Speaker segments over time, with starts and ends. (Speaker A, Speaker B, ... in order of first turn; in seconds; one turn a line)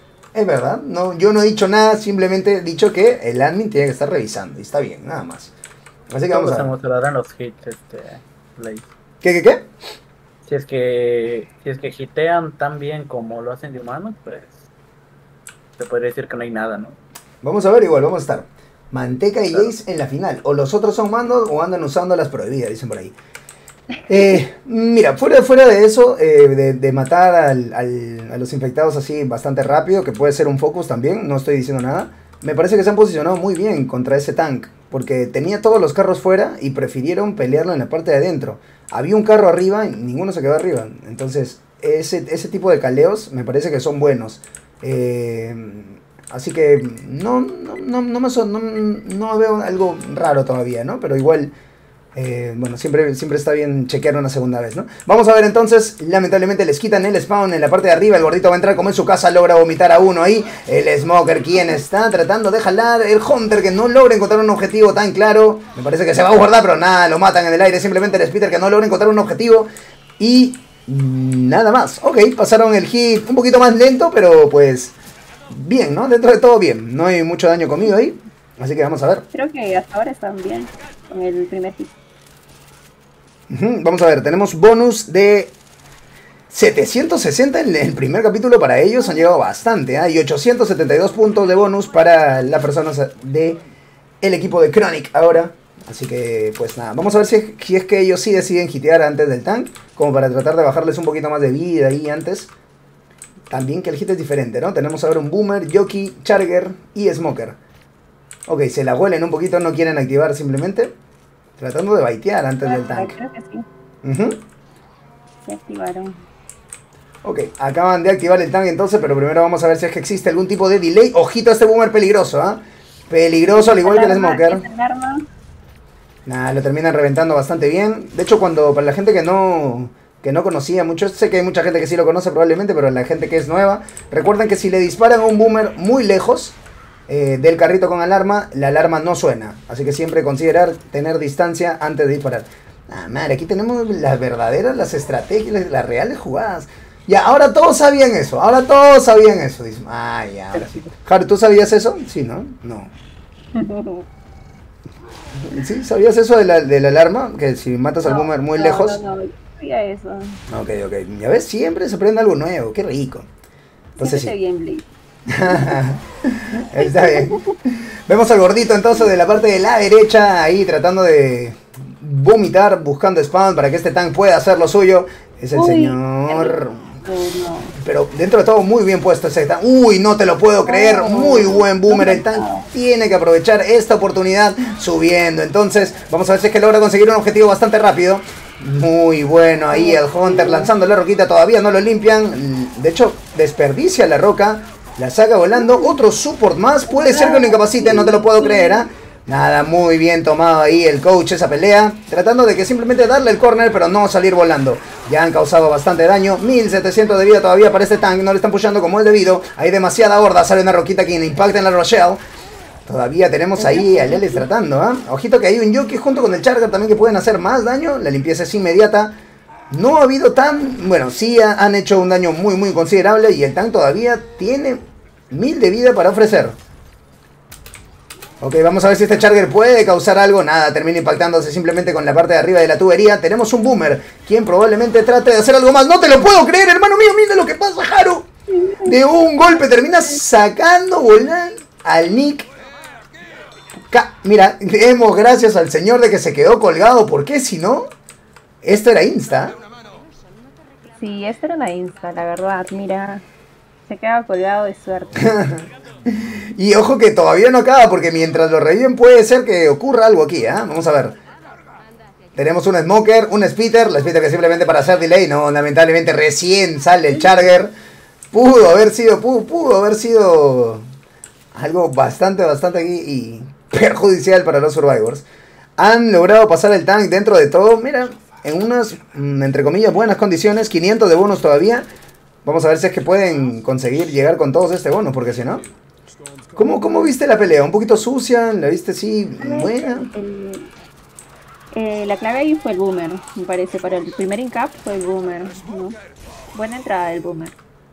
Speaker A: 0.3-5.5
Speaker A: 6.1-6.7
Speaker B: 6.3-8.9
Speaker A: 9.2-9.7
Speaker B: 10.4-14.7
Speaker B: 15.8-17.0
Speaker A: 17.4-23.1
Speaker A: 24.1-51.5
Speaker A: 52.1-74.9
Speaker A: 75.5-79.3
Speaker C: 79.3-81.9
Speaker A: 83.5-85.5
Speaker A: 86.5-93.6
Speaker A: 94.2-102.5
Speaker A: 103.5-107.6
Speaker A: 108.5-110.9
Speaker A: 111.6-113.2
Speaker C: 112.6-113.7
Speaker A: 114.0-114.4
Speaker C: 115.5-116.2
Speaker A: 117.2-124.7
Speaker C: 123.5-125.3
Speaker A: 126.3-136.6
Speaker A: 137.1-152.9
Speaker B: 150.6-150.9
Speaker C: 153.6-154.1
Speaker A: 155.4-159.0
Speaker C: 158.0-160.4
Speaker A: 160.5-163.3
Speaker C: 164.0-164.9
Speaker A: 164.0-164.3
Speaker A: 165.3-176.9
Speaker C: 165.5-165.8
Speaker C: 166.6-167.6
Speaker C: 175.5-177.8
Speaker A: 177.8-212.2
Speaker C: 180.6-182.7
Speaker C: 189.7-190.7
Speaker C: 195.7-195.9
Speaker C: 196.9-198.8
Speaker A: 212.9-219.2
Speaker C: 213.6-214.4
Speaker A: 219.7-226.6
Speaker A: 228.4-238.3
Speaker C: 238.5-238.9
Speaker A: 238.8-242.5
Speaker A: 243.9-247.9
Speaker A: 248.6-249.6
Speaker C: 251.0-253.2
Speaker C: 253.9-255.4
Speaker A: 255.2-261.2
Speaker A: 262.4-267.7
Speaker A: 268.3-270.8
Speaker A: 271.5-275.2
Speaker A: 275.8-281.9
Speaker A: 282.4-285.6
Speaker A: 286.6-290.1
Speaker C: 289.4-290.7
Speaker C: 291.7-296.0
Speaker C: 296.5-297.6